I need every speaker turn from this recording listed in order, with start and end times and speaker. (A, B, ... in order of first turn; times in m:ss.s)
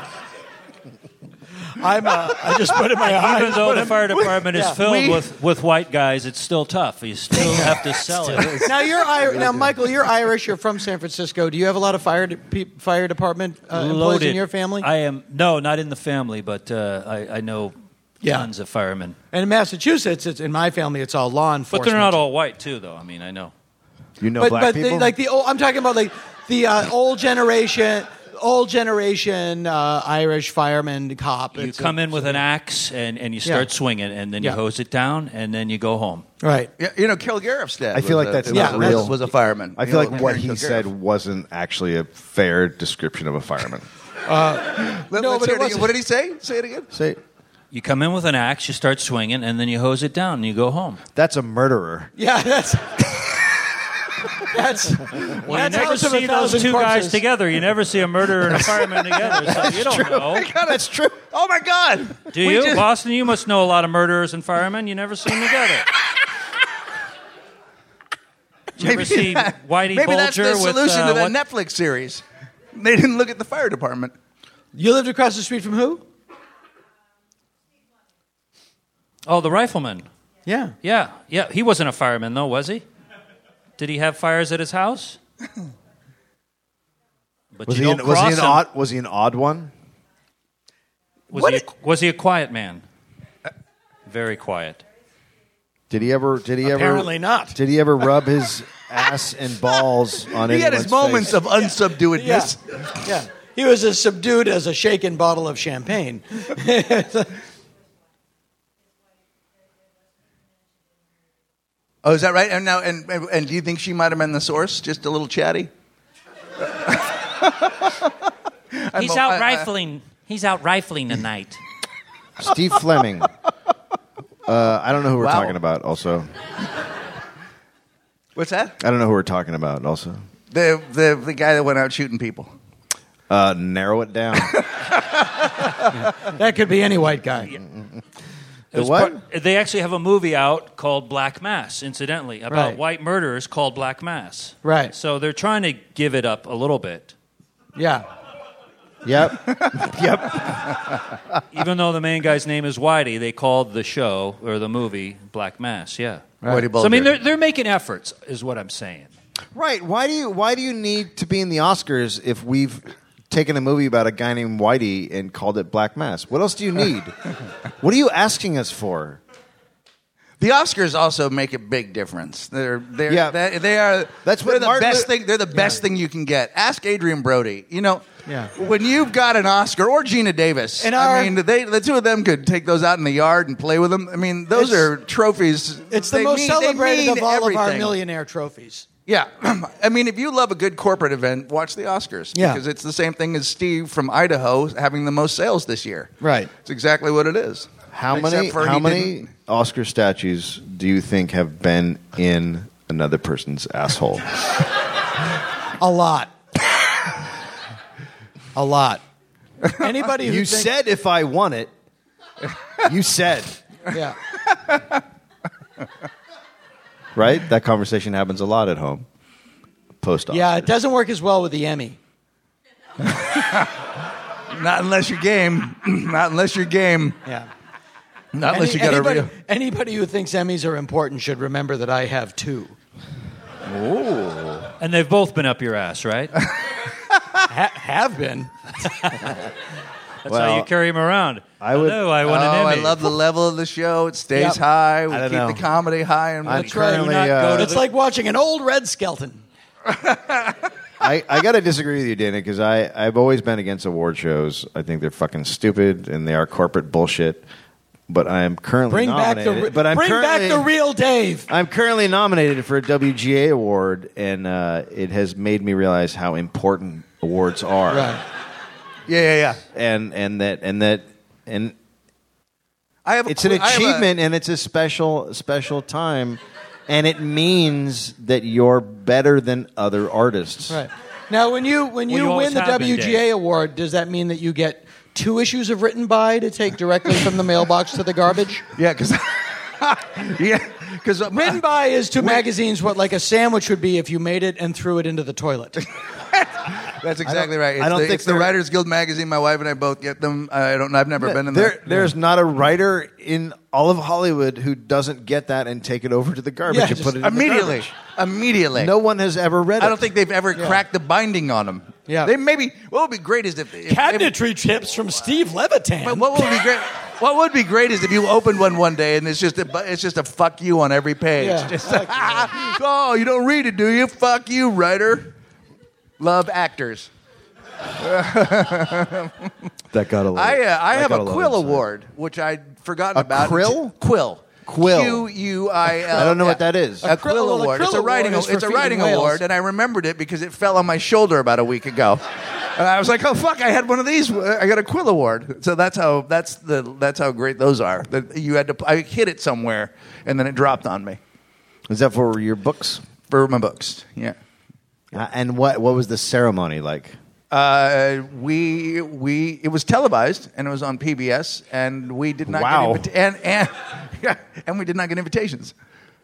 0:01.7-0:04.0 A
0:03.0-0:08.7 B
0:03.5-0:05.2 C
0:04.5-0:04.8 A
0:08.2-0:08.6 C
0:08.6-0:14.9 A
0:13.7-0:19.2 B
0:18.2-0:18.5 A
0:19.3-0:22.2 A
0:21.7-0:23.5 B
0:24.2-0:25.1 D
0:24.4-0:32.4 A
0:31.5-0:36.2 B
0:36.4-0:36.7 A
0:36.8-0:40.8 C
0:37.9-0:39.2 D
0:38.5-0:39.1 A
0:39.8-0:43.8 D
0:44.2-0:45.9 A
0:44.8-0:46.9 C
0:46.9-0:47.2 D
0:47.7-0:51.0 B
0:51.1-0:52.1 D
0:52.2-0:53.2 A
0:54.4-0:57.2 A
0:55.2-1:00.5 B
0:59.4-1:01.3 D
1:00.2-1:02.8 C
1:02.3-1:05.9 B
1:08.8-1:11.3 B
1:08.8-1:14.1 C
1:14.7-1:16.0 A
1:19.2-1:20.0 B
1:20.4-1:20.7 A
1:20.8-1:22.8 B
1:23.8-1:25.2 B
1:27.5-1:28.6 B
1:27.7-1:29.7 D
1:31.3-1:32.8 B
1:31.3-1:31.6 A
1:34.1-1:34.8 B
1:35.9-1:41.4 D
1:36.6-1:37.6 A
1:40.3-1:42.8 C
1:42.1-1:47.3 A
1:52.0-1:55.7 C
1:56.8-1:58.1 C
1:58.7-1:59.7 C
1:58.9-2:01.6 B
2:02.4-2:03.3 D
2:04.4-2:06.3 D
2:05.2-2:05.5 C
2:08.4-2:08.8 C
2:08.8-2:10.2 D
2:10.5-2:12.5 C
2:13.3-2:14.6 D
2:14.4-2:15.9 C
2:15.9-2:17.6 A
2:18.7-2:19.2 D
2:18.7-2:27.1 B
2:22.5-2:22.8 A
2:24.6-2:24.9 A
2:27.8-2:28.0 A
2:29.0-2:31.4 D
2:31.5-2:39.1 B
2:36.4-2:37.1 C
2:39.5-2:47.1 D
2:47.8-2:49.2 D
2:50.4-3:08.0 C
2:53.1-2:53.4 D
2:54.2-2:55.1 D
3:00.8-3:01.3 A
3:04.5-3:04.9 A
3:05.9-3:08.8 A
3:09.1-3:19.2 C
3:12.3-3:12.6 A
3:16.2-3:16.5 A
3:17.9-3:24.4 D
3:25.8-3:26.3 A
3:28.5-3:29.0 A
3:29.7-3:30.7 A
3:30.2-3:31.7 D
3:32.8-3:33.6 D
3:33.9-3:34.2 A
3:34.5-3:35.0 C
3:37.1-3:39.0 D
3:40.0-3:40.7 D
3:40.3-3:42.0 A
3:43.0-3:43.9 C
3:44.5-3:47.2 C
3:48.3-3:49.3 C
3:48.5-3:52.8 A
3:53.7-3:54.6 C
3:54.8-3:56.4 B
3:57.4-3:58.9 A
3:58.9-3:59.3 B
4:00.2-4:03.1 B
4:00.2-4:00.7 D
4:01.6-4:02.0 D
4:02.2-4:06.7 C
4:04.3-4:04.6 A
4:05.1-4:05.6 D
4:06.4-4:07.8 D
4:06.5-4:07.9 B
4:06.6-4:09.4 A
4:09.8-4:10.6 C
4:11.0-4:17.4 D
4:18.1-4:20.7 D
4:18.9-4:21.5 A
4:21.5-4:28.2 D
4:27.9-4:28.2 A
4:29.1-4:29.6 C
4:29.7-4:31.7 D
4:33.0-4:34.1 C
4:33.3-4:40.8 D
4:40.7-4:48.6 A
4:42.1-4:43.3 B
4:48.8-4:51.6 C
4:51.3-4:55.8 A
4:56.3-5:01.8 C
4:57.2-4:58.5 D
5:01.2-5:07.9 D
5:06.7-5:07.2 A
5:07.2-5:08.9 C
5:08.8-5:10.0 D
5:09.8-5:14.3 C
5:10.5-5:10.8 A
5:12.1-5:12.3 A
5:13.8-5:16.6 A
5:16.0-5:25.3 C
5:21.4-5:22.5 A
5:26.2-5:27.1 C
5:28.0-5:29.5 C
5:29.9-5:31.8 D
5:30.3-5:51.2 C
5:33.1-5:33.9 D
5:34.6-5:35.3 D
5:35.9-5:37.1 D
5:37.0-5:39.4 A
5:51.9-5:53.0 D
5:53.3-5:54.4 C
5:55.1-5:57.2 D
5:57.5-6:05.7 C
6:02.5-6:03.1 D